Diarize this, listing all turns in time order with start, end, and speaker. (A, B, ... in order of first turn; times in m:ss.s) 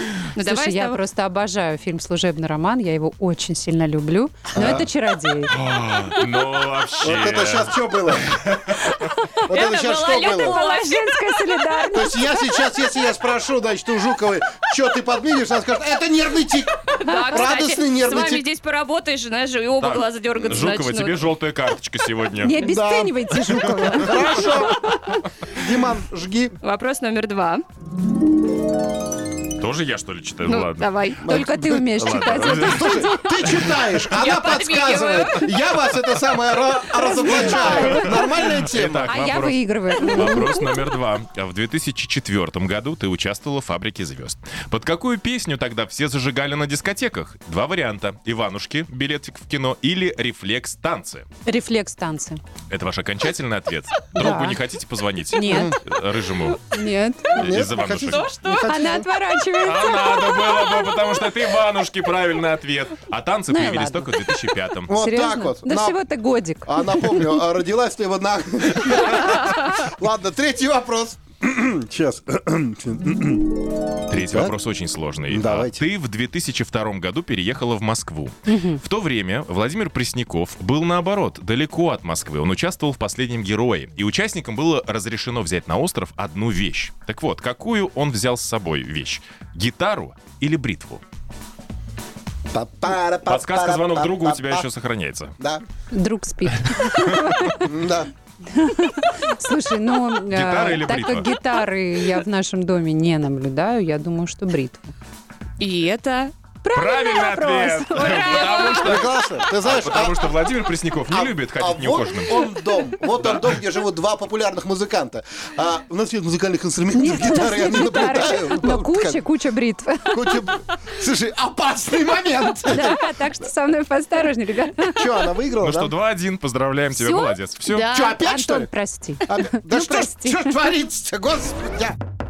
0:00.3-0:01.0 A
0:00.4-0:05.5 B
0:04.5-0:04.9 C
0:05.5-0:08.9 D
0:07.0-0:08.4 C
0:09.4-0:10.6 C
0:09.5-0:11.6 A
0:10.4-0:12.4 B
0:11.9-0:18.4 C
0:17.0-0:21.3 A
0:17.1-0:17.4 B
0:19.8-0:22.6 D
0:22.4-0:24.4 B
0:22.6-0:24.9 C
0:25.5-0:26.5 C
0:26.6-0:27.6 A
0:29.6-0:33.7 D
0:30.4-0:31.2 A
0:31.2-0:39.2 C
0:31.2-0:33.5 B
0:34.1-0:35.5 A
0:37.3-0:38.2 B
0:38.4-0:51.2 D
0:39.1-0:40.7 B
0:51.4-0:52.4 B
0:52.7-0:56.6 D
0:54.1-0:54.6 B
0:55.3-0:55.8 B
0:55.4-0:55.8 C
0:56.7-0:57.4 B
0:57.4-0:58.3 D
0:57.4-0:59.1 C
0:58.6-1:00.6 B
0:59.6-1:04.9 D
1:03.5-1:04.1 B
1:04.9-1:06.0 C
1:04.9-1:07.3 B
1:06.6-1:14.5 C
1:14.1-1:31.0 D
1:15.3-1:15.8 C
1:18.5-1:18.8 B
1:32.5-1:34.7 C
1:33.2-1:35.3 D
1:35.9-1:37.7 B
1:37.6-1:38.1 C
1:38.4-1:44.9 B
1:40.3-1:41.3 D
1:45.6-1:46.3 A
1:46.6-1:48.8 B
1:46.7-1:52.5 D
1:48.2-1:48.9 A
1:48.7-1:50.5 C
1:51.0-1:59.2 C
1:53.2-1:53.5 D
1:56.9-2:00.5 B
2:00.1-2:03.0 C
2:02.7-2:05.3 B
2:04.8-2:05.9 C
2:05.6-2:07.9 D
2:06.9-2:10.6 B
2:07.8-2:08.7 C
2:09.2-2:12.0 C